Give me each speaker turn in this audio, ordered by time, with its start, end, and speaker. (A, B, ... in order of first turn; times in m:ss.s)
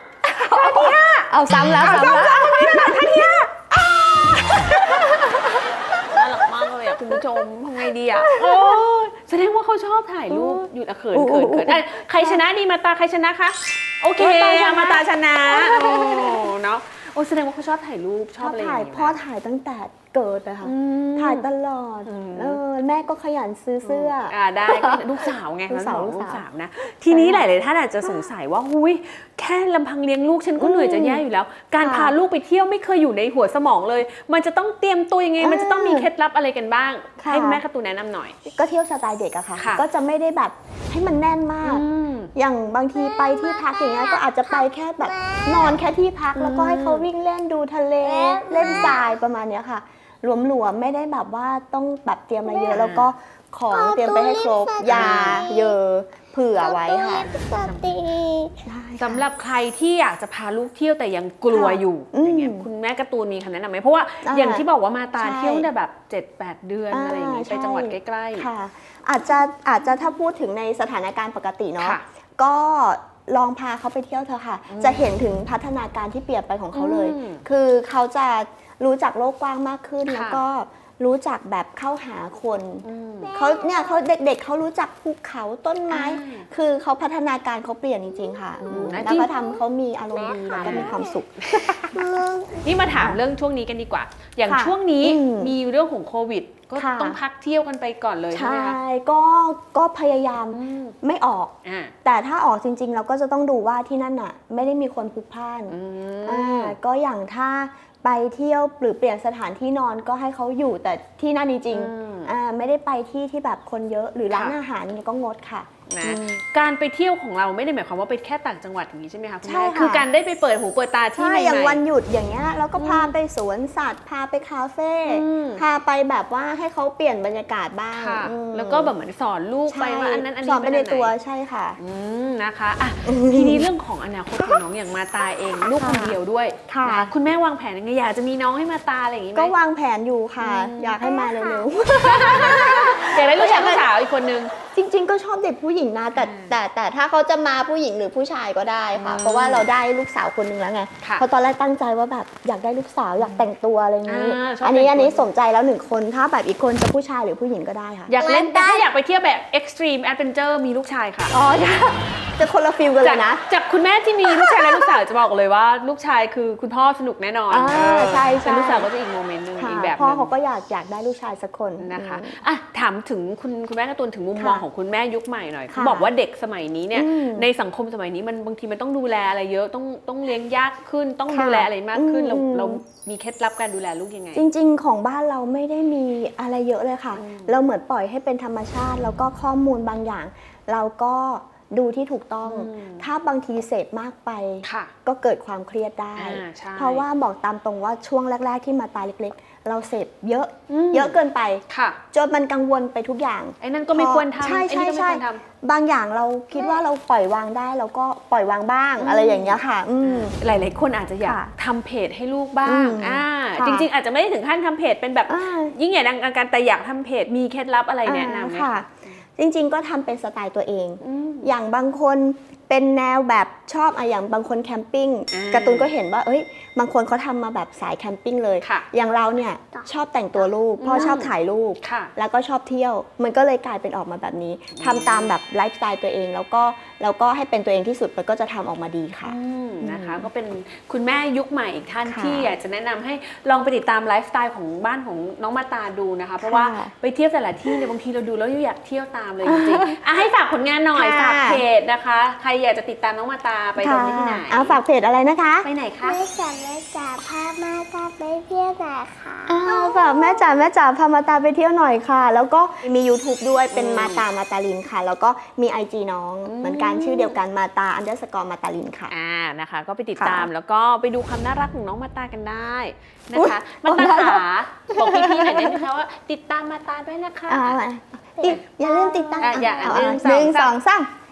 0:00.2-0:03.5 A
0:00.3-0:05.7 B
0:04.7-0:05.1 A
0:06.0-0:19.2 A
0:08.1-0:08.8 B
0:10.3-0:12.4 B
0:14.2-0:16.5 B
0:18.4-0:26.4 B
0:20.6-0:21.5 A
0:22.0-0:22.6 A
0:23.8-0:38.4 A
0:27.1-0:27.5 B
0:30.6-0:31.2 B
0:31.8-0:32.2 B
0:35.4-0:36.1 B
0:37.2-0:37.6 B
0:38.4-0:57.3 B
0:39.6-0:39.8 A
0:41.6-0:42.3 A
0:42.9-0:45.8 C
0:46.4-0:47.1 A
0:48.0-0:49.1 C
0:48.6-0:48.9 A
0:52.4-0:52.9 C
0:52.7-0:53.1 A
0:53.7-0:55.7 C
0:54.9-0:55.4 A
0:56.6-0:58.6 C
0:57.2-0:57.8 A
0:58.6-0:59.2 B
0:59.0-1:08.5 A
1:01.5-1:02.7 B
1:04.2-1:04.6 B
1:05.2-1:05.7 B
1:06.9-1:32.1 B
1:14.7-1:15.0 A
1:16.7-1:17.4 A
1:20.0-1:20.4 A
1:22.8-1:23.3 A
1:23.2-1:24.0 C
1:25.9-1:26.5 A
1:28.1-1:32.9 C
1:28.7-1:29.3 A
1:30.6-1:31.8 A
1:32.6-1:38.8 A
1:34.5-1:35.5 B
1:36.7-1:37.2 B
1:38.3-1:56.4 B
1:40.5-1:40.9 A
1:41.6-1:41.9 A
1:45.7-1:46.8 A
1:51.7-1:52.3 A
1:55.9-2:01.8 A
1:59.4-2:00.1 B
2:01.2-2:08.9 B
2:02.8-2:03.1 A
2:05.0-2:05.6 A
2:08.0-2:11.1 A
2:09.7-2:11.8 B
2:11.8-2:19.5 A
2:13.0-2:13.7 B
2:15.7-2:16.2 B
2:16.7-2:17.1 B
2:19.3-2:23.9 B
2:20.4-2:24.5 A
2:24.7-2:38.9 B
2:26.2-2:26.6 A
2:28.9-2:29.7 A
2:34.0-2:35.2 A
2:38.1-2:41.4 A
2:41.3-2:43.4 B
2:43.0-2:50.3 A
2:44.2-2:45.0 B
2:47.5-2:48.9 B
2:49.6-2:52.4 B
2:51.8-3:04.4 A
2:54.4-2:54.6 B
2:55.7-2:56.1 B
2:56.9-2:57.5 B
3:01.3-3:02.8 B
3:04.3-3:30.3 B
3:07.1-3:07.5 A
3:12.4-3:13.1 A
3:14.6-3:14.9 A
3:16.2-3:17.0 A
3:20.7-3:21.2 A
3:21.7-3:22.0 A
3:23.6-3:25.4 A
3:29.0-3:39.2 A
3:31.2-3:31.5 B
3:32.6-3:33.9 B
3:35.3-3:35.7 B
3:38.0-4:00.3 B
3:41.0-3:41.5 A
3:45.3-3:45.9 A
3:50.8-3:52.1 A
3:54.7-3:55.3 A
3:59.2-4:14.8 A
4:02.0-4:02.5 B
4:06.4-4:06.9 B
4:09.4-4:10.0 B
4:10.9-4:11.6 B
4:13.8-4:15.7 B
4:15.6-4:16.2 A
4:16.0-4:20.6 C
4:19.5-4:29.1 B
4:23.7-4:24.2 A
4:26.4-4:27.4 A
4:29.1-4:37.8 A
4:30.2-4:30.5 B
4:33.3-4:35.9 B
4:37.5-4:41.1 B
4:38.4-4:40.2 C
4:39.4-4:40.7 A